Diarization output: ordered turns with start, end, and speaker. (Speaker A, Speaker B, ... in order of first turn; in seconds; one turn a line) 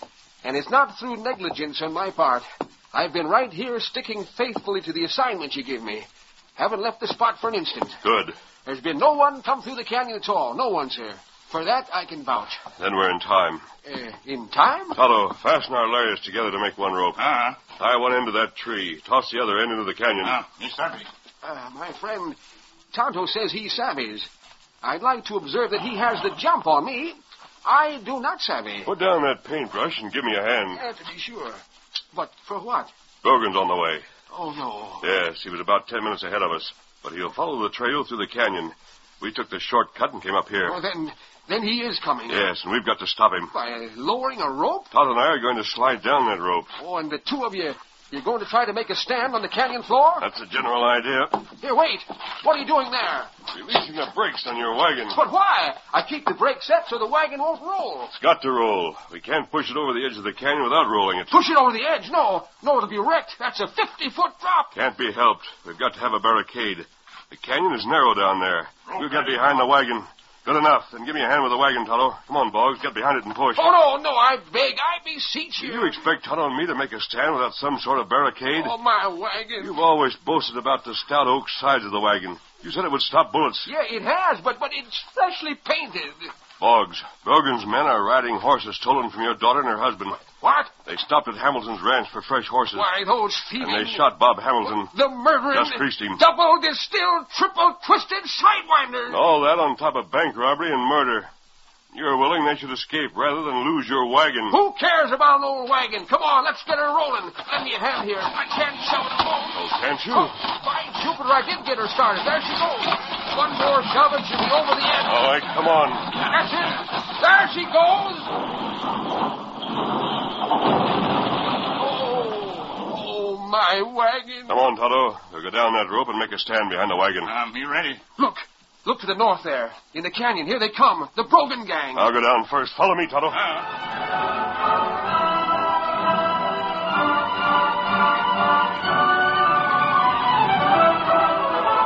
Speaker A: 0.4-8.0
Speaker B: 8.0-8.4
Speaker A: 8.7-12.6
Speaker B: 12.8-13.7
Speaker A: 13.8-15.0
Speaker B: 14.9-20.4
Speaker C: 17.2-17.6
Speaker C: 20.2-21.1
Speaker A: 21.4-22.4
Speaker A: 22.9-24.3
Speaker A: 24.8-28.9
Speaker B: 28.9-30.8
Speaker A: 30.7-32.9
Speaker B: 33.2-34.1
Speaker A: 34.3-35.1
Speaker B: 35.0-40.8
Speaker A: 40.6-42.5
Speaker B: 42.3-43.5
Speaker A: 43.5-44.9
Speaker B: 44.9-46.7
Speaker A: 46.8-50.3
Speaker B: 50.2-51.5
Speaker A: 51.6-53.3
Speaker B: 53.5-55.2
Speaker A: 55.1-58.1
Speaker B: 58.2-61.3
Speaker A: 61.3-64.7
Speaker B: 64.7-73.7
Speaker C: 69.0-69.4
Speaker A: 73.5-76.0
Speaker B: 75.6-78.7
Speaker A: 78.6-79.8
Speaker B: 79.6-83.7
Speaker A: 83.7-86.3
Speaker B: 86.6-90.2
Speaker A: 90.4-90.7
Speaker B: 90.8-92.9
Speaker A: 92.7-94.1
Speaker B: 93.6-94.9
Speaker A: 94.8-99.2
Speaker B: 95.5-96.2
Speaker B: 99.1-101.3
Speaker B: 101.9-104.6
Speaker A: 104.5-115.3
Speaker B: 109.5-110.3
Speaker B: 115.1-116.1
Speaker A: 116.2-118.4
Speaker A: 121.8-124.5
Speaker B: 124.5-127.3
Speaker C: 127.2-128.0
Speaker A: 128.2-132.1
Speaker B: 131.9-133.4
Speaker C: 133.3-133.7